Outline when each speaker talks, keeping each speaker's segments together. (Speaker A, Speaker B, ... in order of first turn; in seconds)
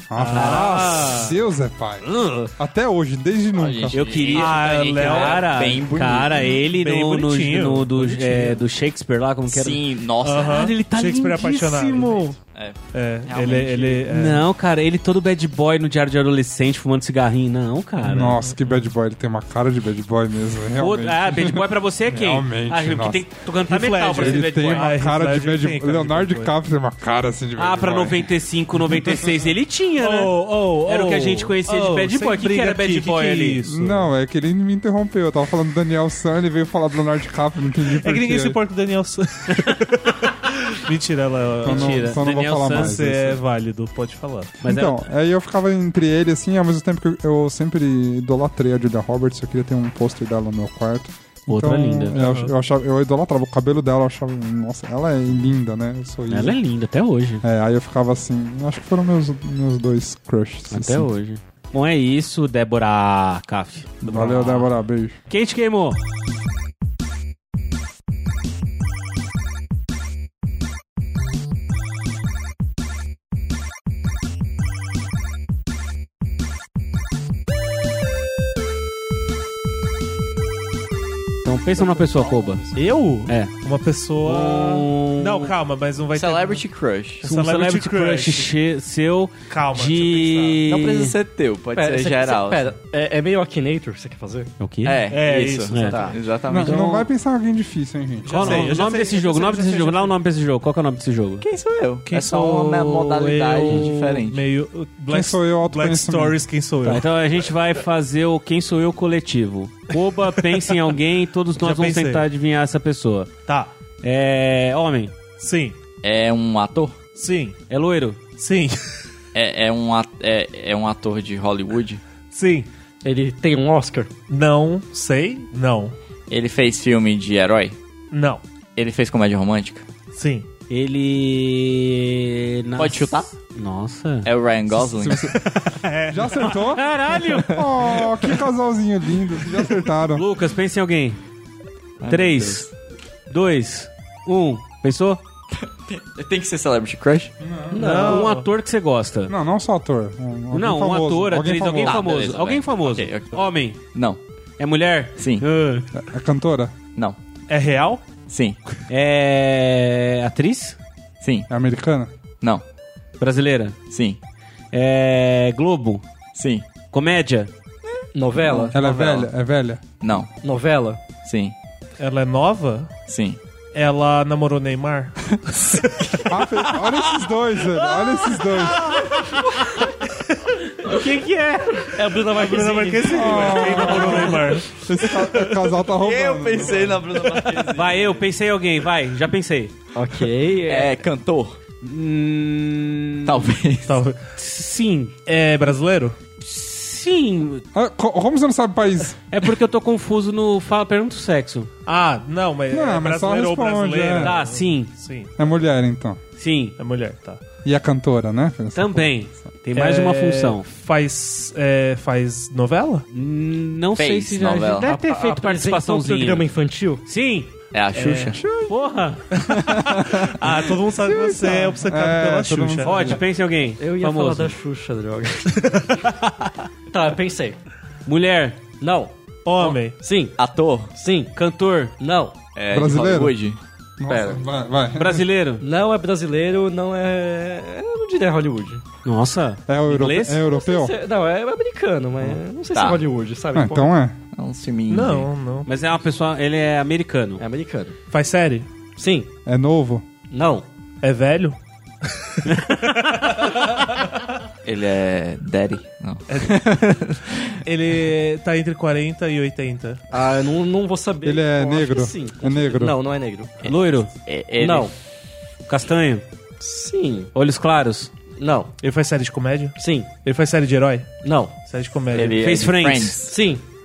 Speaker A: 0.1-4.1, 18.0-23.3, 24.2-28.3, 33.6-38.6, 41.6-43.4, 44.6-56.6, 57.4-61.1, 64.0-65.2, 96.5-98.7, 105.1-106.4, 134.8-135.4, 136.1-136.9, 137.5-140.2, 147.4-147.8, 149.3-152.1, 155.9-156.7, 161.5-162.1, 168.7-169.8, 176.3-178.9, 183.1-187.3, 197.7-199.2, 202.7-204.4, 205.4-206.2, 207.6-209.5, 220.5-223.2, 232.7-233.3, 234.0-235.2, 239.7-240.9, 243.5-244.2, 249.5-250.0, 261.2-263.0
Speaker B: 0.2-1.3, 4.3-5.6, 6.5-8.6, 10.2-12.4, 12.9-14.5, 18.4-18.8, 23.6-26.5, 30.0-34.1, 37.9-44.6, 52.1-52.5, 82.8-86.6, 87.2-88.5, 89.5-90.7, 95.1-96.0, 98.2-100.1, 102.0-107.1, 109.9-110.9, 111.6-112.3, 115.4-115.8, 117.2-117.6, 118.4-119.0, 122.3-122.7, 124.3-126.0, 128.1-128.4, 130.1-130.5, 135.3-137.2, 147.8-148.5, 157.5-158.0, 168.7-169.3, 172.0-172.9, 173.7-176.9, 178.4-179.4, 182.3-185.6, 193.9-194.2, 195.3-196.2, 201.9-205.3, 206.8-207.4, 209.7-213.1, 217.9-218.4, 219.4-223.2, 229.4-230.0, 244.9-245.7, 248.1-248.7, 251.0-253.6, 256.3-256.6, 257.7-260.0, 268.8-272.4
Speaker C: 0.3-1.2, 2.0-2.5, 3.9-12.2, 14.1-18.4, 20.8-24.9, 27.6-33.6, 41.6-43.0, 44.6-45.0, 51.5-52.3, 56.3-57.4, 60.7-64.7, 65.3-66.0, 81.5-82.7, 83.2-83.5, 84.2-85.5, 87.2-91.1, 94.6-95.0, 95.7-96.0, 96.5-97.1, 98.3-101.5, 103.6-103.9, 106.8-113.3, 114.0-115.2, 117.7-118.2, 130.7-134.3, 136.5-137.7, 140.1-141.2, 142.1-142.7, 143.3-145.2, 147.9-149.3, 150.5-153.8, 154.6-155.9, 158.9-160.8, 163.2-163.8, 164.7-166.0, 166.9-167.5, 179.0-179.4, 180.7-181.9, 187.7-189.7, 191.8-193.5, 194.4-195.1, 196.4-197.7, 199.3-201.7, 204.2-204.9, 206.4-206.8, 208.8-210.7, 213.1-216.5, 217.1-217.5, 218.7-219.2, 222.8-224.6, 228.1-228.6, 231.3-231.9, 234.9-235.6, 239.1-240.4, 245.7-247.4, 263.6-264.1, 265.7-266.2, 267.3-268.1, 272.3-273.2
Speaker D: 3.5-6.6, 9.5-10.7, 12.1-14.0, 82.1-82.8, 86.1-87.2, 90.7-92.7, 94.8-96.8, 101.4-104.4, 116.0-117.0, 119.3-122.0, 126.3-127.8, 128.8-129.9, 132.8-133.3, 134.2-135.3, 142.0-142.7, 145.5-147.4, 151.7-154.2, 155.2-155.5, 158.3-158.6, 161.2-161.5, 163.9-164.2, 166.3-166.7, 168.0-168.8, 170.0-170.3, 171.2-171.6, 173.1-173.4, 185.8-188.3, 190.7-191.6, 193.2-194.0, 214.0-214.9, 217.7-218.4, 219.5-220.3, 230.4-230.9, 232.6-233.6, 234.1-234.4, 242.2-243.0, 244.3-245.3, 254.6-257.6, 264.3-264.9, 272.1-273.4
Speaker E: 91.7-94.5, 95.8-96.2, 123.0-124.1, 147.7-148.3, 168.1-168.8, 170.4-171.0, 179.2-179.8, 181.8-184.6, 189.9-191.1, 214.8-217.0, 223.8-226.1, 226.9-227.6, 228.8-230.4, 230.9-231.3, 232.0-232.3, 235.6-238.8, 240.4-243.9, 247.4-248.0, 249.0-249.3, 250.3-250.7, 260.1-263.6, 264.6-264.9, 266.6-267.3, 268.4-268.7, 269.8-270.1, 271.2-271.5, 273.3-273.6